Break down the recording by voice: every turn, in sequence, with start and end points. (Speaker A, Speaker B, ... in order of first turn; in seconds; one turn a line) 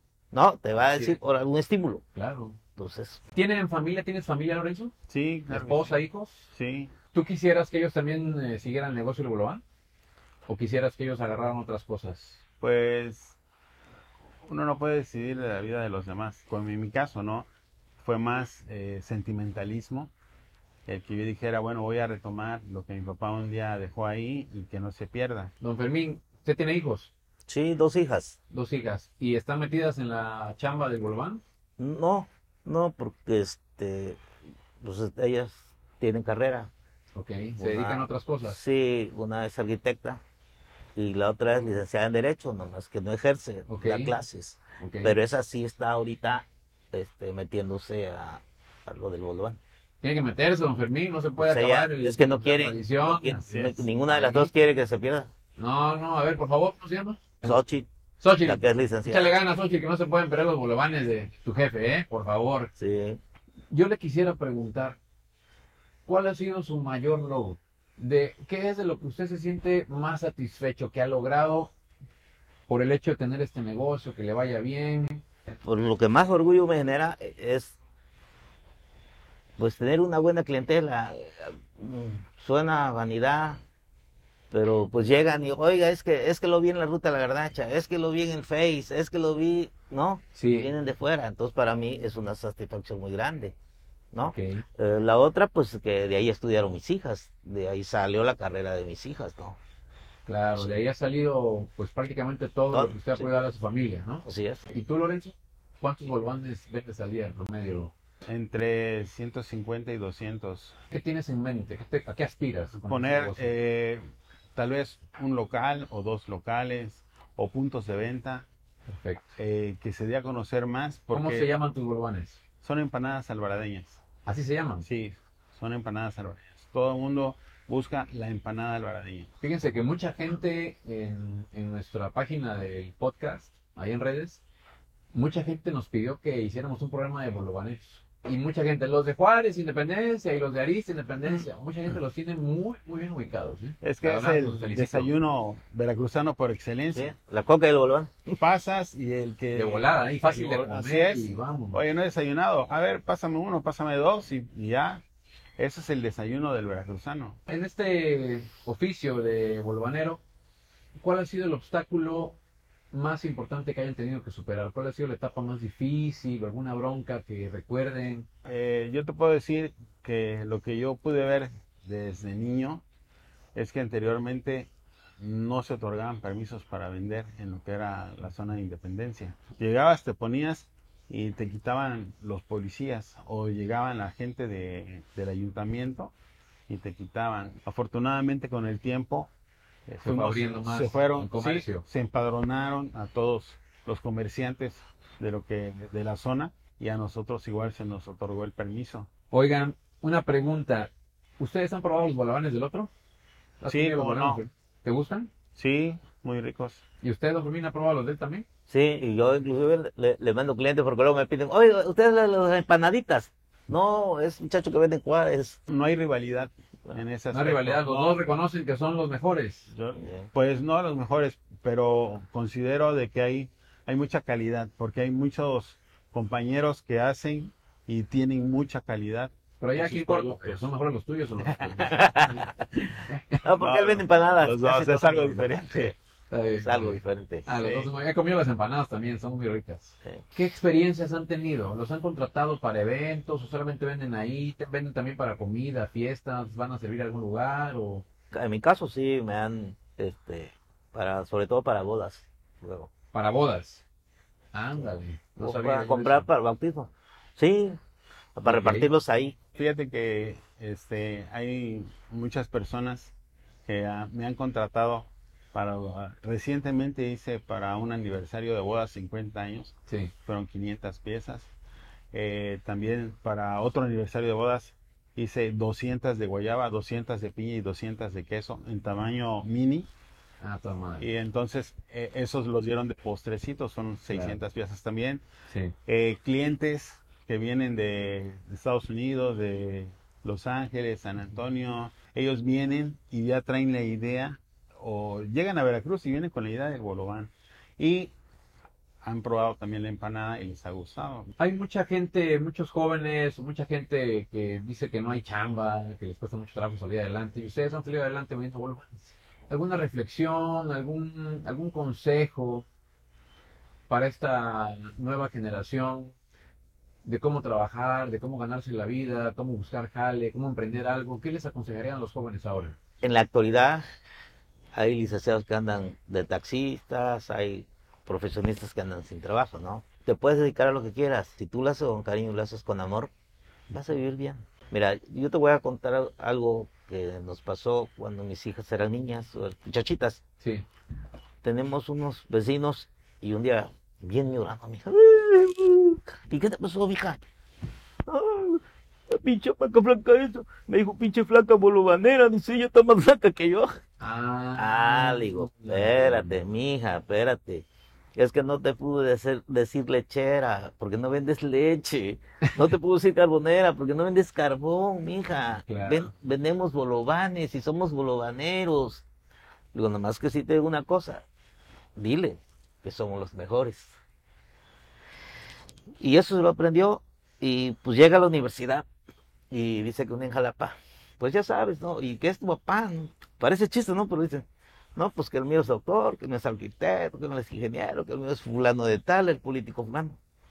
Speaker A: 0.3-2.0
Speaker B: 0.9-1.2
Speaker B: 2.1-2.6
Speaker A: 2.8-3.2
Speaker B: 3.3-4.9
Speaker C: 5.1-6.0
Speaker B: 5.5-6.5
Speaker C: 6.5-6.9
Speaker B: 7.1-9.6
Speaker B: 10.5-12.4
Speaker C: 12.6-13.4
Speaker C: 14.4-17.5
Speaker C: 18.0-20.1
Speaker C: 20.9-25.5
Speaker B: 25.6-27.1
Speaker A: 27.5-28.4
Speaker B: 28.5-31.4
Speaker A: 31.8-34.2
Speaker A: 34.8-36.7
Speaker B: 37.1-38.6
Speaker A: 37.6-40.2
Speaker A: 41.0-49.6
Speaker B: 43.7-44.1
Speaker B: 44.8-45.1
Speaker B: 50.0-54.5
Speaker A: 51.4-55.3
Speaker C: 53.4-53.8
Speaker B: 55.6-57.6
Speaker A: 57.4-57.9
Speaker B: 58.2-62.7
Speaker A: 58.4-59.4
Speaker A: 62.8-63.2
Speaker B: 63.7-65.0
Speaker B: 66.0-71.7
Speaker B: 72.7-75.2
Speaker A: 75.6-77.7
Speaker A: 79.6-83.6
Speaker A: 84.5-93.5
Speaker B: 90.3-90.7
Speaker A: 94.1-99.6
Speaker B: 94.2-94.6
Speaker B: 100.2-107.9
Speaker A: 102.7-103.3
Speaker A: 104.2-104.6
Speaker C: 108.2-110.8
Speaker B: 110.9-113.5
Speaker C: 112.7-114.0
Speaker C: 114.5-118.5
Speaker B: 118.9-119.3
Speaker C: 119.4-121.5
Speaker B: 121.1-122.4
Speaker C: 122.6-124.0
Speaker B: 124.2-124.8
Speaker C: 124.8-129.3
Speaker B: 129.4-134.4
Speaker B: 135.1-145.1
Speaker C: 143.8-147.1
Speaker A: 146.9-148.4
Speaker C: 148.3-155.0
Speaker B: 149.5-151.8
Speaker C: 155.6-157.4
Speaker B: 157.5-160.2
Speaker B: 161.0-162.4
Speaker B: 162.9-168.3
Speaker C: 168.4-172.8
Speaker C: 173.5-186.1
Speaker C: 186.7-189.3
Speaker C: 189.9-199.1
Speaker B: 190.0-191.8
Speaker B: 199.3-202.9
Speaker B: 203.6-205.3
Speaker C: 203.7-204.4
Speaker C: 205.6-206.8
Speaker B: 207.0-208.4
Speaker A: 208.7-215.6
Speaker C: 215.7-218.2
Speaker B: 217.3-219.7
Speaker C: 219.7-230.6
Speaker A: 220.0-220.3
Speaker B: 229.6-232.3
Speaker A: 231.8-235.9
Speaker B: 233.1-233.4
Speaker C: 233.6-235.9
Speaker B: 236.3-248.1
Speaker A: 236.6-237.5
Speaker C: 237.6-237.9
Speaker A: 248.3-252.9
Speaker B: 253.1-253.8
Speaker B: 254.5-256.3
Speaker A: 254.7-257.8
Speaker A: 258.4-259.4
Speaker B: 258.4-258.9
Speaker C: 259.5-263.1
Speaker C: 263.6-269.7
Speaker B: 269.9-270.1
Speaker C: 270.2-271.5
Speaker C: 272.1-279.9
Speaker B: 280.4-281.1
Speaker C: 281.0-285.2
Speaker B: 284.1-284.4
Speaker B: 285.5-285.7
Speaker C: 285.9-298.1
Speaker C: 299.0-301.3
Speaker B: 301.4-312.6
Speaker B: 313.9-316.1
Speaker B: 317.0-322.8
Speaker A: 323.0-323.8
Speaker A: 324.7-333.1
Speaker A: 333.7-340.2
Speaker A: 341.4-347.2
Speaker A: 348.1-353.8
Speaker B: 354.0-356.4
Speaker A: 354.6-357.6
Speaker A: 358.1-369.0
Speaker B: 365.6-366.1
Speaker A: 369.7-371.2
Speaker A: 372.0-373.9
Speaker A: 376.0-378.9
Speaker A: 379.5-384.4
Speaker A: 384.9-390.2